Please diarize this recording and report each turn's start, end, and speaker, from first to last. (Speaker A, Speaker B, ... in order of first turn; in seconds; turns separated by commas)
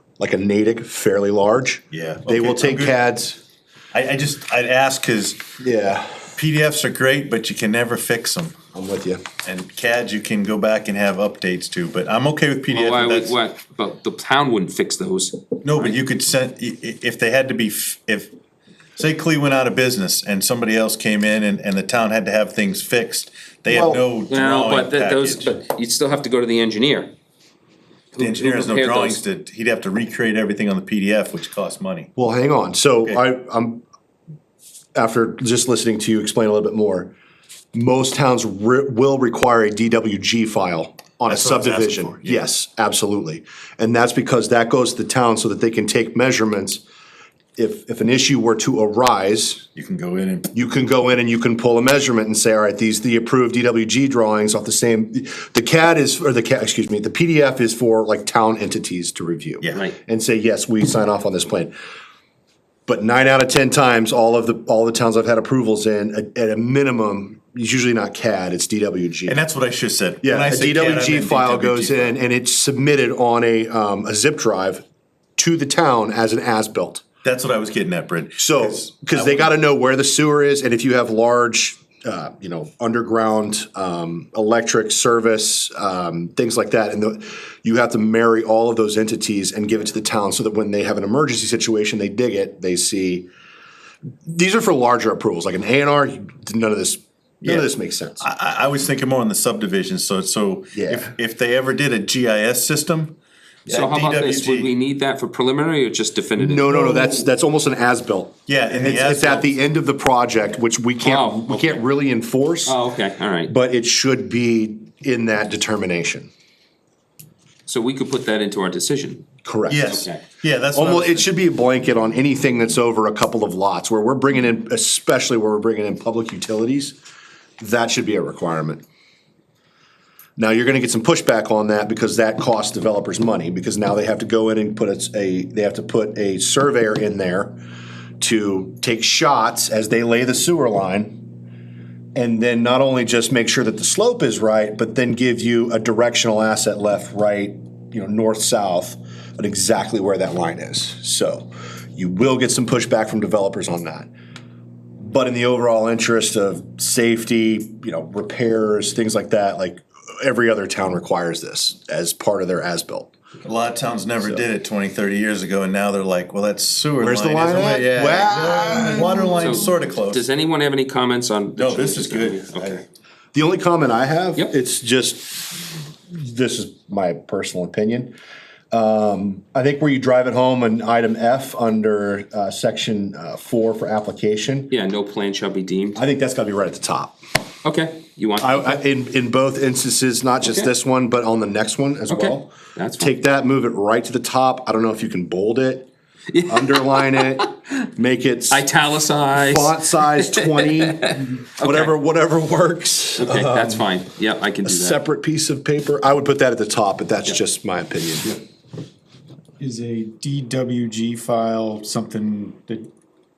Speaker A: 0.2-3.4, Speaker B: 1.9-3.0, Speaker B: 3.9-5.5, Speaker A: 5.6-6.3, Speaker B: 6.3-8.5, Speaker A: 8.7-9.2, Speaker B: 9.4-13.4, Speaker C: 12.7-15.9, Speaker B: 15.6-18.3, Speaker B: 18.9-25.6, Speaker A: 23.7-24.0, Speaker C: 24.3-27.1, Speaker C: 28.1-29.2, Speaker B: 28.2-32.1, Speaker A: 32.1-33.8, Speaker A: 34.9-37.1, Speaker A: 37.7-46.8, Speaker B: 41.3-42.4, Speaker A: 47.5-49.6, Speaker B: 49.7-50.5, Speaker A: 50.5-61.7, Speaker B: 59.6-59.9, Speaker A: 62.9-69.4, Speaker B: 69.2-72.2, Speaker A: 70.2-74.8, Speaker A: 75.4-77.0, Speaker B: 77.2-79.5, Speaker A: 78.4-93.3, Speaker A: 94.2-98.2, Speaker B: 97.4-97.7, Speaker B: 98.2-104.7, Speaker A: 100.7-101.1, Speaker C: 103.7-107.2, Speaker A: 106.4-112.8, Speaker B: 108.5-109.5, Speaker C: 111.0-111.8, Speaker C: 112.6-113.5, Speaker A: 113.5-116.3, Speaker C: 117.7-119.3, Speaker A: 119.4-120.0, Speaker B: 119.7-121.3, Speaker C: 119.8-120.2, Speaker A: 120.7-127.0, Speaker A: 127.6-128.8, Speaker A: 130.4-137.6, Speaker A: 138.2-141.2, Speaker A: 142.1-154.1, Speaker A: 155.0-163.1, Speaker B: 163.4-170.3, Speaker A: 167.0-169.3, Speaker C: 169.4-172.8, Speaker B: 171.6-172.8, Speaker A: 173.3-178.1, Speaker A: 178.7-184.7, Speaker C: 184.7-186.0, Speaker A: 185.9-187.2, Speaker C: 187.6-188.8, Speaker A: 188.4-195.9, Speaker C: 190.4-190.7, Speaker C: 192.1-193.1, Speaker C: 196.3-197.5, Speaker A: 196.5-198.8, Speaker C: 198.5-201.9, Speaker A: 199.3-204.0, Speaker C: 203.2-205.0, Speaker A: 204.6-208.4, Speaker D: 209.6-212.9